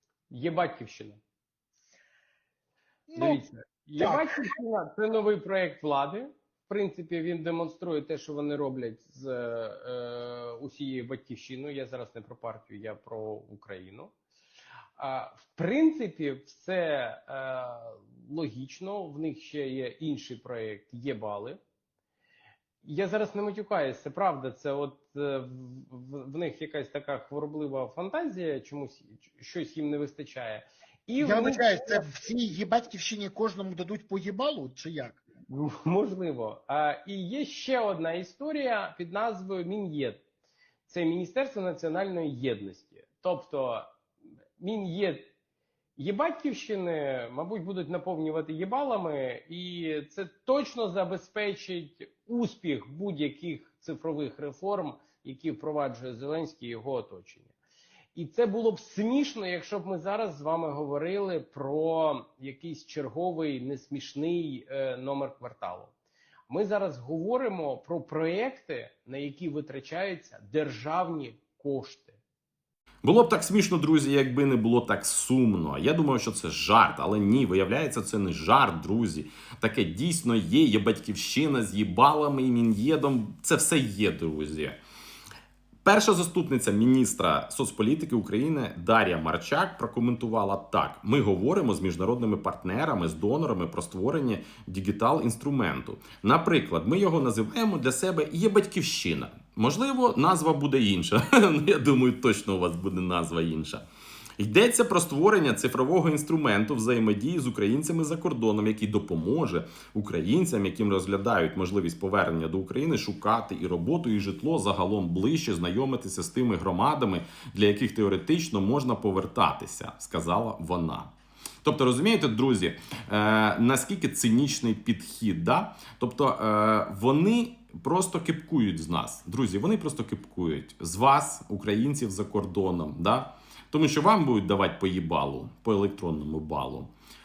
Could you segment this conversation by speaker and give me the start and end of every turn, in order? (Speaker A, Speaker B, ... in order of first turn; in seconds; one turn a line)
Speaker A: 0.3-1.2
Speaker B: 3.1-3.4
Speaker A: 3.2-14.1
Speaker B: 4.0-4.4
Speaker A: 15.0-21.6
Speaker A: 22.8-32.0
Speaker B: 31.2-35.2
Speaker A: 35.5-40.2
Speaker A: 40.9-43.9
Speaker A: 44.6-45.3
Speaker A: 46.0-57.5
Speaker A: 58.1-65.9
Speaker A: 66.5-72.2
Speaker C: 73.0-84.8
Speaker C: 85.8-103.8
Speaker C: 104.4-121.1
Speaker C: 121.6-136.9